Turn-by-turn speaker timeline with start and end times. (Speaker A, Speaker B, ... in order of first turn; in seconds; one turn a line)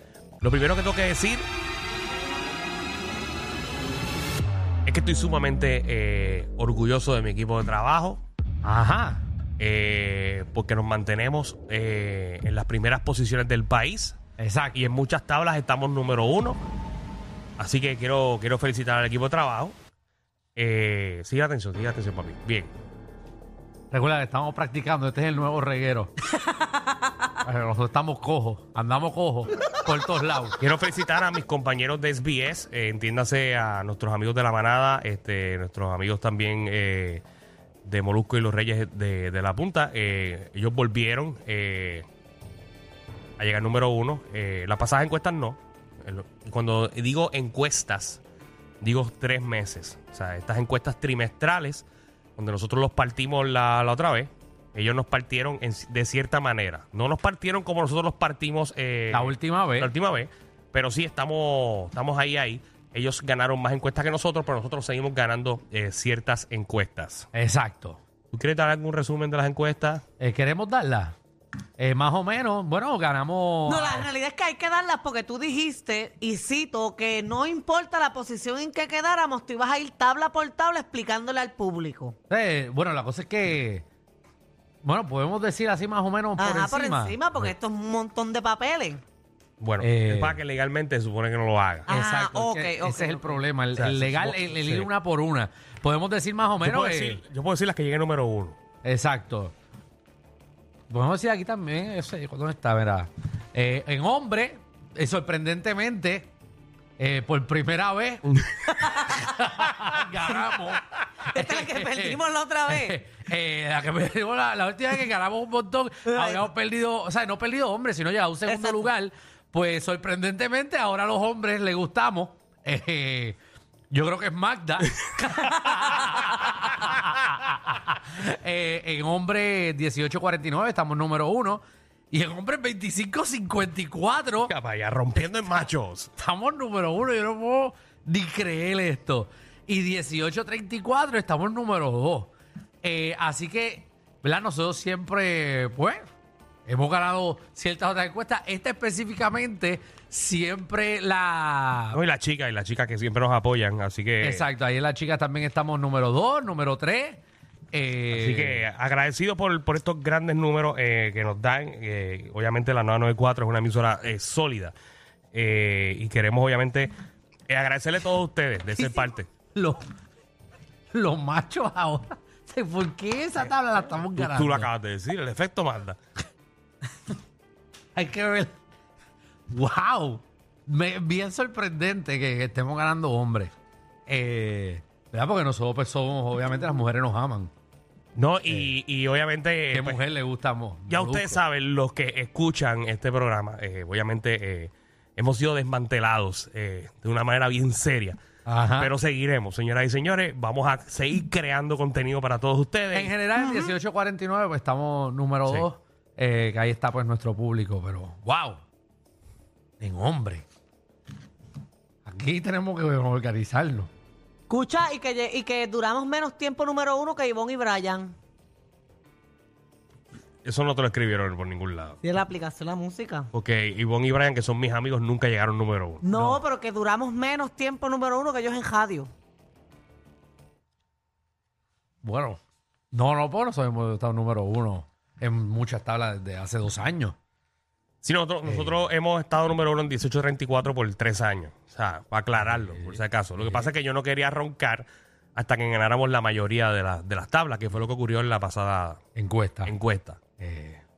Speaker A: 0.4-1.5
Speaker A: 4.9-8.2
Speaker B: 8.6-9.2
Speaker A: 9.6-14.2
Speaker B: 14.4-14.9
Speaker A: 14.7-16.6
Speaker A: 17.6-19.8
Speaker A: 20.6-22.7
Speaker B: 23.9-26.1
Speaker B: 27.4-30.6
Speaker A: 30.6-37.2
Speaker A: 37.9-42.0
Speaker A: 43.4-48.2
Speaker A: 48.8-51.9
Speaker A: 52.4-67.3
Speaker B: 59.1-59.9
Speaker B: 67.3-68.0
Speaker A: 68.3-70.0
Speaker B: 70.2-71.2
Speaker B: 71.8-74.1
Speaker C: 73.7-82.2
Speaker B: 82.3-83.8
Speaker B: 84.8-87.2
Speaker C: 86.4-89.0
Speaker A: 89.6-91.9
Speaker B: 89.8-90.4
Speaker C: 91.9-93.4
Speaker B: 91.9-97.2
Speaker A: 93.7-94.9
Speaker A: 96.6-98.6
Speaker B: 98.8-99.5
Speaker B: 100.9-106.3
Speaker B: 107.0-108.4
Speaker C: 108.7-109.3
Speaker B: 109.0-123.4
Speaker C: 111.3-113.0
Speaker C: 116.1-116.5
Speaker C: 118.5-118.8
Speaker B: 123.9-134.5
Speaker A: 134.5-136.1
Speaker B: 135.2-135.5
Speaker B: 136.2-142.3
Speaker B: 142.8-146.1
Speaker B: 146.7-152.0
Speaker A: 151.9-154.4
Speaker B: 154.2-157.2
Speaker B: 157.7-158.6
Speaker A: 158.1-164.8
Speaker A: 165.3-166.9
Speaker A: 167.5-169.3
Speaker B: 168.8-169.8
Speaker B: 170.9-174.7
Speaker A: 174.2-176.0
Speaker B: 178.0-178.6
Speaker B: 179.5-183.5
Speaker B: 184.1-187.5
Speaker A: 188.2-190.0
Speaker B: 188.5-188.7
Speaker B: 189.7-191.4
Speaker A: 190.9-198.2
Speaker B: 198.4-198.9
Speaker A: 198.8-203.1
Speaker B: 202.9-208.6
Speaker C: 203.4-203.7
Speaker B: 209.8-210.4
Speaker B: 212.1-213.9
Speaker C: 214.5-218.2
Speaker A: 220.4-222.0
Speaker C: 222.0-223.3
Speaker A: 223.3-226.0
Speaker C: 226.0-229.1
Speaker B: 226.1-226.4
Speaker B: 232.0-232.4
Speaker B: 232.9-237.2
Speaker A: 238.0-249.0
Speaker B: 238.4-238.7
Speaker B: 242.4-243.7
Speaker B: 249.2-249.7
Speaker A: 249.7-250.2
Speaker B: 250.4-250.8